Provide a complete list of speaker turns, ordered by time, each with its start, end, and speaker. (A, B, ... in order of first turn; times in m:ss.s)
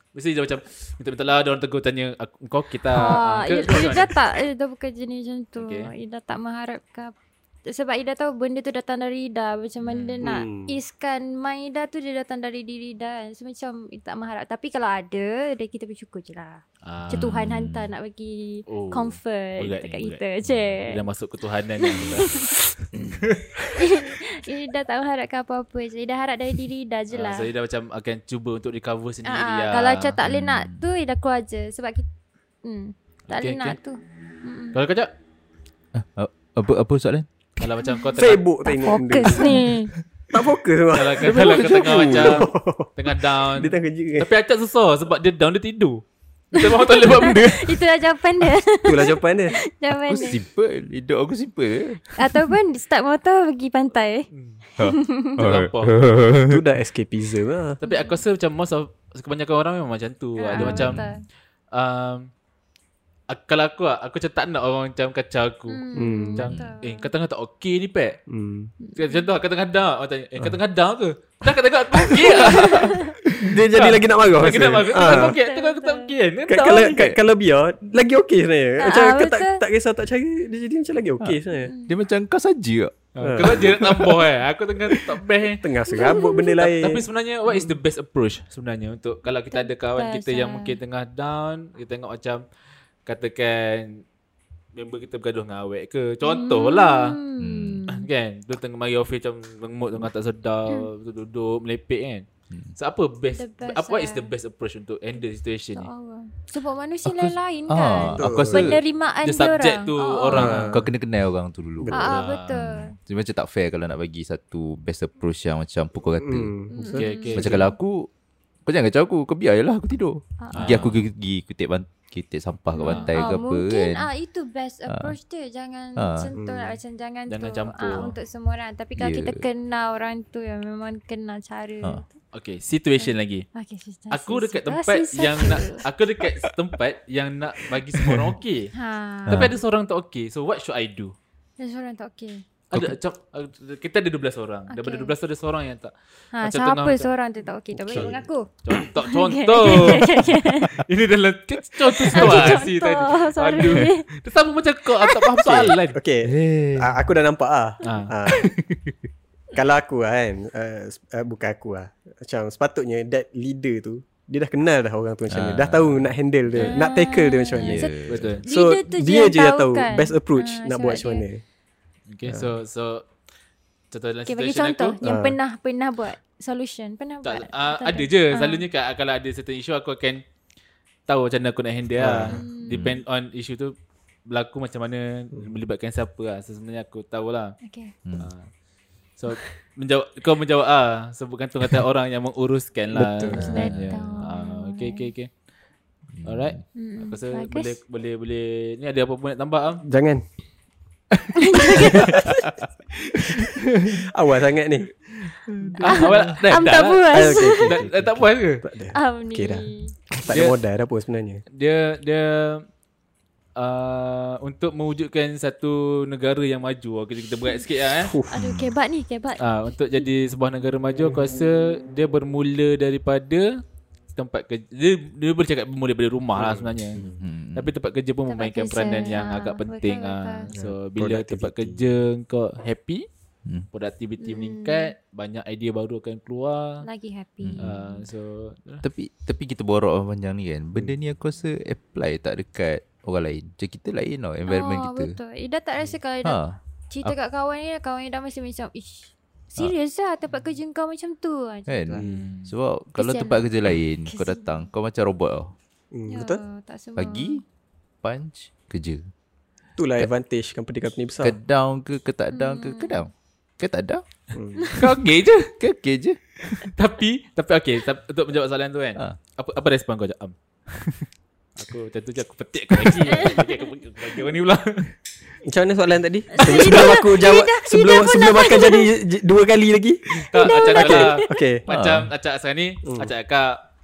0:00.1-0:04.2 A
0:02.9-0:07.1 B
0:05.6-0:05.9 A
0:07.7-0:21.0 B
0:09.8-0:10.2 A
0:10.2-0:10.8 C
0:16.8-0:17.4 A
0:17.1-0:17.9 D
0:18.7-0:20.2 A
0:20.4-0:20.8 D
0:20.8-0:23.6 A
0:21.8-0:22.5 B
0:22.0-0:22.2 D
0:22.9-0:23.2 D
0:23.7-0:27.5 B
0:27.1-0:30.2 A
0:29.2-0:32.1 B
0:30.2-0:30.8 D
0:32.6-0:34.8 B
0:33.3-0:33.8 A
0:34.7-0:35.1 A
0:35.9-0:37.3 D
0:37.6-0:38.4 A
0:37.8-0:39.9 B
0:38.1-0:39.6 C
0:40.3-0:44.3 C
0:40.9-0:47.8 A
0:41.2-0:42.4 D
0:46.5-0:50.4 B
0:48.8-0:49.6 C
0:49.9-0:52.5 D
0:52.1-0:55.4 B
0:54.3-0:54.6 A
0:54.8-0:56.6 D
0:55.4-0:56.1 A
0:56.3-0:57.8 C
0:57.8-1:01.0 A
0:57.8-0:58.2 B
1:00.4-1:01.2 B
1:00.6-1:01.1 D
1:01.7-1:02.3 A
1:03.3-1:05.8 A
1:05.7-1:07.1 B
1:05.9-1:06.5 C
1:06.3-1:08.2 A
1:06.5-1:06.8 D
1:08.3-1:08.7 C
1:08.8-1:09.3 B
1:09.0-1:17.0 A
1:11.9-1:15.4 C
1:12.2-1:13.2 B
1:14.9-1:16.1 B
1:16.5-1:21.7 C
1:16.8-1:17.2 D
1:18.8-1:19.6 B
1:21.2-1:24.2 D
1:21.6-1:22.0 B
1:23.1-1:25.6 A
1:23.2-1:23.9 C
1:25.4-1:27.7 C
1:25.9-1:26.4 B
1:26.3-1:32.4 A
1:29.5-1:30.8 B
1:33.0-1:34.0 A
1:34.7-1:37.2 A
1:36.2-1:38.1 B
1:37.4-1:37.8 D
1:37.9-1:42.2 A
1:42.8-1:45.9 A
1:43.3-1:44.3 B
1:45.8-1:50.7 B
1:47.0-1:48.8 D
1:48.2-1:48.8 C
1:49.2-1:50.7 A
1:50.3-1:50.9 C
1:50.3-1:56.5 D
1:51.8-1:52.2 C
1:51.9-1:52.9 B
1:52.1-1:52.7 A
1:56.2-1:57.2 C
1:56.7-1:57.7 B
1:56.9-1:57.7 A
1:57.3-1:58.1 D
1:58.6-2:04.1 D
2:00.4-2:00.9 B
2:00.5-2:01.0 A
2:02.7-2:12.1 B
2:02.8-2:03.2 A
2:04.9-2:05.1 D
2:06.0-2:06.3 D
2:06.3-2:06.8 C
2:07.3-2:08.1 A
2:09.0-2:09.4 D
2:12.3-2:13.4 A
2:13.0-2:15.8 B
2:14.1-2:18.7 A
2:17.9-2:18.3 D
2:18.7-2:19.5 B
2:19.3-2:19.5 D
2:19.3-2:21.1 A
2:21.6-2:22.4 B
2:22.7-2:27.1 A
2:24.7-2:25.1 B
2:26.3-2:30.8 B
2:27.7-2:28.2 C
2:28.6-2:36.0 A
2:32.0-2:34.1 B
2:35.0-2:35.3 B
2:35.4-2:38.5 C
2:36.2-2:37.0 D
2:37.8-2:38.5 A
2:39.5-2:51.4 C
2:45.3-2:46.1 D
2:46.5-2:46.8 A
2:46.6-2:51.2 B
2:47.6-2:48.4 D
2:48.0-2:48.4 A
2:52.1-2:53.0 A
2:52.2-2:52.5 C
2:53.9-2:55.0 A
2:54.2-2:58.6 B
2:55.0-2:55.4 C
2:57.2-3:00.2 A
3:01.1-3:03.7 A
3:02.0-3:02.4 C
3:02.3-3:02.9 B
3:02.7-3:03.0 D
3:04.3-3:07.6 A
3:07.6-3:07.9 B
3:08.2-3:08.5 A
3:09.2-3:15.3 A
3:12.9-3:13.7 C
3:13.3-3:14.0 D
3:13.4-3:15.1 B
3:16.2-3:16.6 D
3:16.2-3:19.8 A
3:16.7-3:17.8 B
3:19.8-3:20.2 C
3:21.4-3:22.4 B
3:21.8-3:22.4 C
3:23.0-3:24.9 C
3:23.4-3:24.0 D
3:25.2-3:26.4 D
3:25.8-3:28.6 A
3:25.8-3:27.7 B
3:27.1-3:31.4 C
3:28.9-3:29.9 B
3:30.3-3:30.6 A
3:31.5-3:32.6 A
3:33.6-3:38.2 A
3:38.0-3:38.4 C
3:38.3-3:40.0 B
3:38.4-3:38.7 D
3:39.4-3:43.6 A
3:44.1-3:47.0 A
3:46.3-3:47.2 C
3:47.0-3:47.7 D
3:47.5-3:53.0 A
3:48.3-3:50.5 B
3:50.5-3:51.9 C
3:53.7-3:56.8 A
3:54.2-3:54.9 B
3:56.8-3:58.0 B
3:57.4-3:57.7 D
3:57.6-3:58.8 A
3:58.8-4:05.2 D
4:04.5-4:12.0 B
4:06.2-4:07.1 D
4:11.7-4:15.5 D
4:12.0-4:12.3 C
4:12.0-4:12.5 A
4:13.0-4:13.5 B
4:14.0-4:14.5 B
4:15.9-4:16.4 C
4:16.1-4:17.4 B
4:17.0-4:17.4 D
4:18.0-4:19.1 D
4:19.8-4:21.4 C
4:21.2-4:24.0 D
4:22.3-4:23.0 B
4:24.3-4:24.8 C
4:24.6-4:24.9 B
4:24.8-4:25.5 A
4:25.6-4:26.7 D
4:26.7-4:31.0 A
4:31.6-4:34.9 A
4:35.4-4:41.6 C
4:36.3-4:38.9 B
4:40.2-4:41.2 B
4:40.3-4:43.6 A
4:41.7-4:42.1 D
4:42.8-4:43.1 C